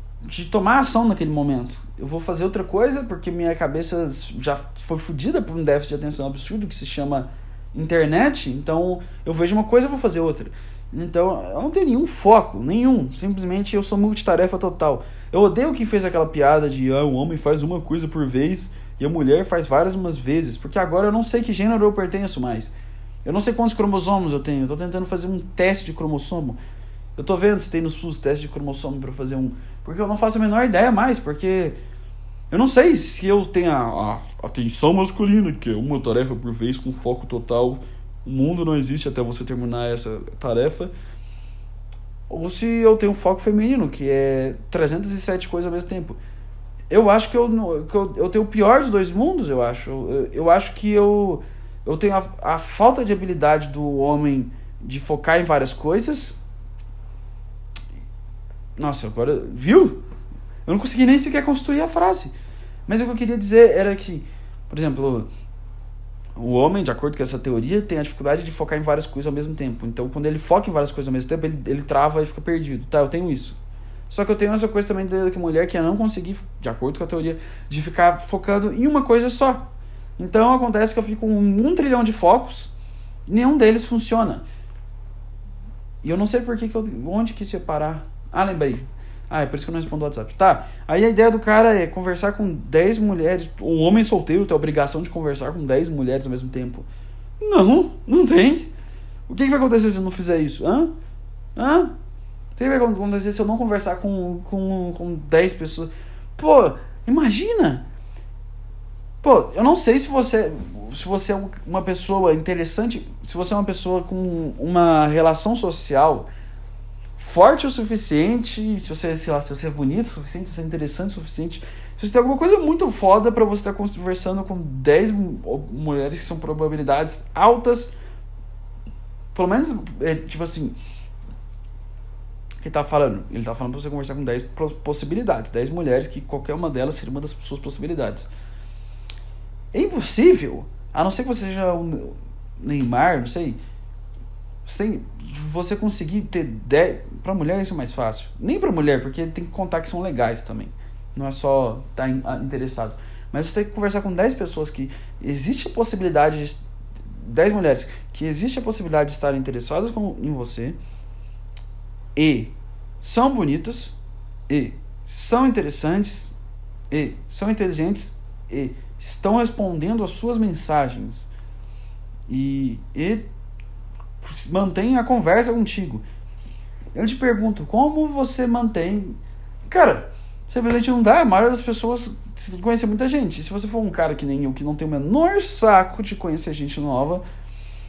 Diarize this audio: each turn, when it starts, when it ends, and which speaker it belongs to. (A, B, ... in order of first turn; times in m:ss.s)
0:00.2-0:22.7 A
0:23.2-0:26.6 A
0:27.2-0:31.8 A
0:32.5-0:40.9 A
0:42.3-0:46.2 A
0:46.9-0:56.4 A
0:58.8-1:00.0 A
1:00.7-1:02.3 A
1:02.9-1:05.3 A
1:06.4-1:13.6 A
1:14.1-1:22.7 A
1:23.3-1:24.4 A
1:26.0-1:36.9 A
1:37.4-1:38.7 A
1:39.3-1:40.9 A
1:41.6-1:42.0 A
1:42.6-1:47.8 A
1:49.2-1:56.3 A
1:57.2-2:07.9 A
2:09.3-2:10.8 A
2:12.6-2:18.3 A
2:19.7-2:23.6 A
2:24.6-2:36.6 A
2:37.2-2:40.8 A
2:42.2-2:44.0 A
2:44.5-2:46.4 A
2:46.9-2:51.3 A
2:52.3-2:53.3 A
2:54.2-2:56.0 A
2:56.9-3:07.2 A